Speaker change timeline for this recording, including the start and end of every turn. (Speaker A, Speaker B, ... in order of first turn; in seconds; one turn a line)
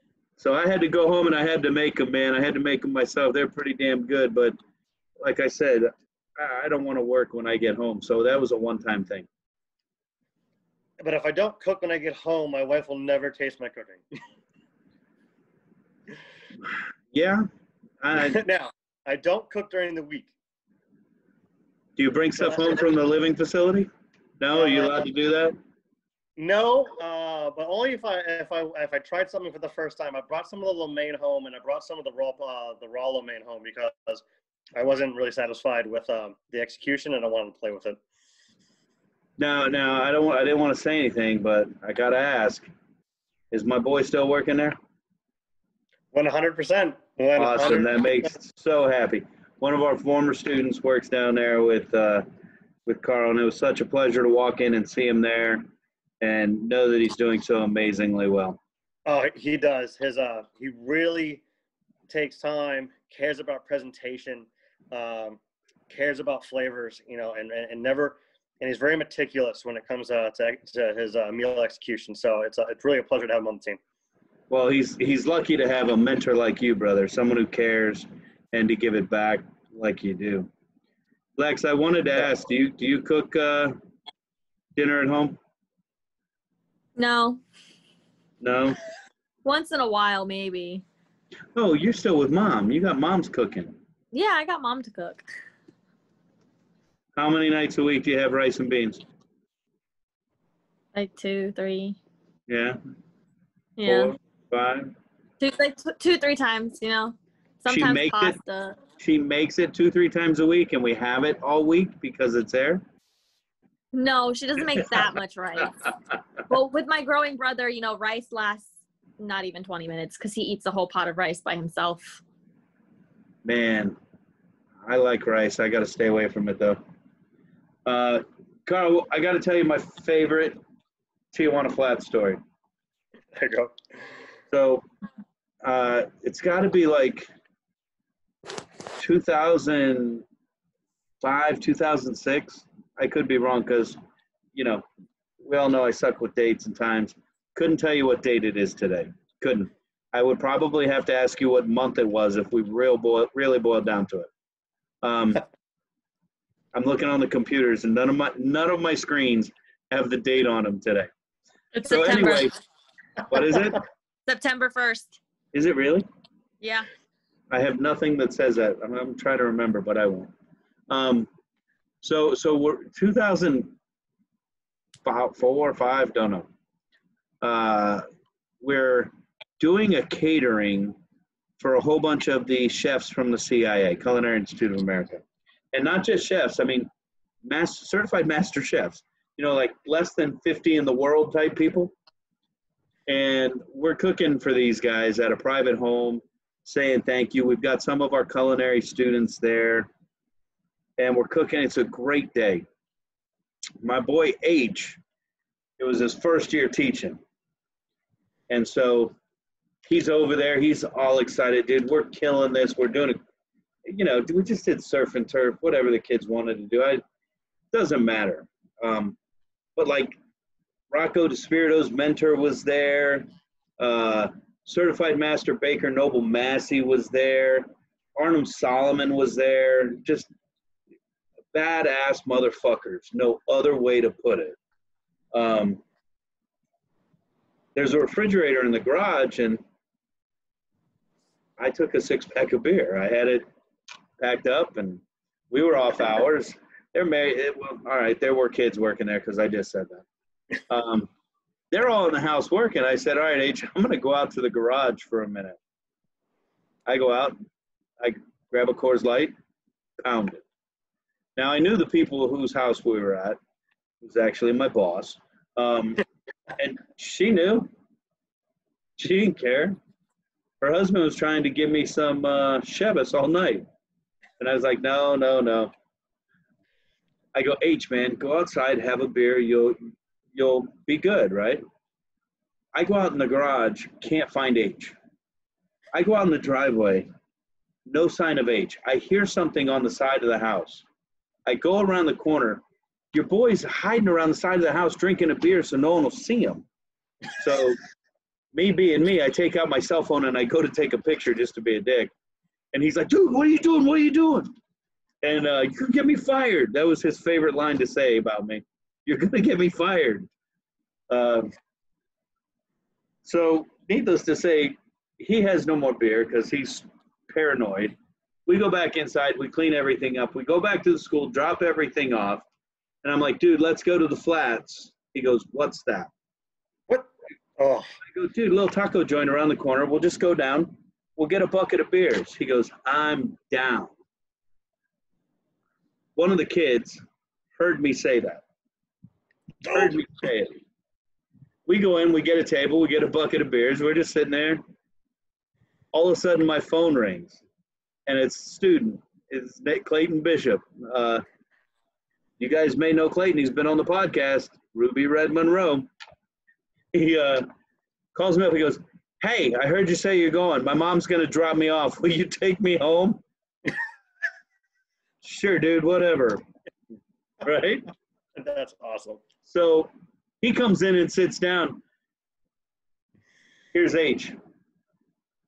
Speaker A: 0.4-4.6
Speaker A: 5.2-9.3
Speaker B: 11.0-14.0
Speaker A: 17.1-17.5
Speaker A: 18.0-18.4
Speaker B: 18.1-20.3
Speaker A: 22.0-25.6
Speaker B: 22.4-22.8
Speaker B: 24.5-25.0
Speaker B: 26.4-34.2
Speaker B: 34.8-38.0
Speaker A: 39.4-42.7
Speaker A: 43.5-44.8
Speaker B: 46.1-48.3
Speaker A: 47.4-52.2
Speaker A: 52.9-55.7
Speaker A: 56.2-58.6
Speaker B: 59.0-61.4
Speaker B: 62.1-65.4
Speaker B: 65.9-73.8
Speaker A: 74.5-80.5
Speaker A: 81.4-83.8
Speaker A: 84.8-85.4
Speaker C: 87.0-87.4
Speaker A: 88.4-88.8
Speaker C: 89.4-90.8
Speaker A: 91.5-93.8
Speaker C: 94.1-95.2
Speaker A: 97.2-99.0
Speaker C: 100.9-102.0
Speaker A: 102.5-102.8
Speaker C: 103.8-104.1
Speaker A: 103.8-104.9
Speaker C: 105.4-108.8
Speaker A: 107.7-108.4
Speaker A: 109.0-112.8
Speaker C: 113.9-115.9
Speaker C: 116.5-122.2
Speaker A: 123.4-124.0
Speaker A: 124.8-126.8
Speaker A: 127.8-130.6
Speaker A: 131.3-132.4
Speaker B: 133.3-133.7
Speaker A: 134.5-134.8
Speaker A: 135.6-137.3
Speaker A: 139.0-140.2
Speaker A: 141.2-144.0
Speaker A: 144.5-144.8
Speaker A: 145.4-154.3
Speaker A: 155.0-155.4
Speaker A: 156.7-161.1
Speaker C: 161.7-162.5
Speaker A: 161.8-162.5
Speaker A: 163.3-163.8
Speaker C: 164.3-165.2
Speaker A: 165.5-166.1
Speaker C: 166.6-166.9
Speaker A: 167.5-170.3
Speaker A: 170.9-171.3
Speaker A: 172.0-173.8
Speaker A: 175.0-176.5
Speaker A: 177.4-178.0
Speaker A: 178.6-181.0
Speaker A: 181.6-186.9
Speaker A: 187.4-191.9
Speaker A: 193.1-199.9
Speaker A: 201.0-202.6
Speaker A: 203.8-205.0
Speaker A: 205.8-207.2
Speaker A: 208.5-209.1
Speaker A: 209.8-213.2
Speaker A: 213.8-217.0
Speaker A: 217.7-219.2
Speaker A: 219.8-220.2
Speaker A: 220.9-223.3
Speaker A: 223.8-230.3
Speaker A: 231.5-234.6
Speaker A: 235.3-235.8
Speaker A: 237.7-239.6
Speaker A: 241.6-243.5
Speaker A: 244.2-250.0
Speaker A: 250.7-251.1
Speaker A: 251.7-255.6
Speaker A: 256.9-257.4
Speaker A: 258.0-259.3
Speaker A: 260.0-260.4
Speaker A: 261.4-263.4
Speaker A: 264.0-266.0
Speaker A: 266.6-267.7
Speaker A: 269.0-269.8
Speaker A: 270.6-273.6
Speaker A: 274.4-275.7
Speaker A: 277.3-279.8
Speaker A: 280.3-281.6
Speaker A: 282.7-284.9
Speaker A: 285.9-287.1
Speaker A: 287.9-290.8
Speaker A: 291.4-296.6
Speaker A: 297.4-297.8
Speaker A: 298.5-302.1
Speaker A: 302.7-304.5
Speaker A: 305.2-310.3
Speaker A: 311.1-311.5
Speaker A: 313.2-322.4
Speaker A: 323.0-326.1
Speaker B: 326.9-327.9
Speaker A: 328.1-333.9
Speaker A: 336.1-337.0
Speaker A: 337.6-338.4
Speaker A: 339.6-340.6
Speaker A: 341.7-344.6
Speaker A: 345.9-347.4
Speaker A: 348.1-351.2
Speaker A: 352.4-355.9
Speaker A: 356.9-357.5
Speaker A: 358.1-363.2
Speaker A: 365.2-366.4
Speaker A: 367.4-367.9
Speaker B: 368.4-369.2
Speaker A: 369.4-371.8
Speaker A: 373.7-374.4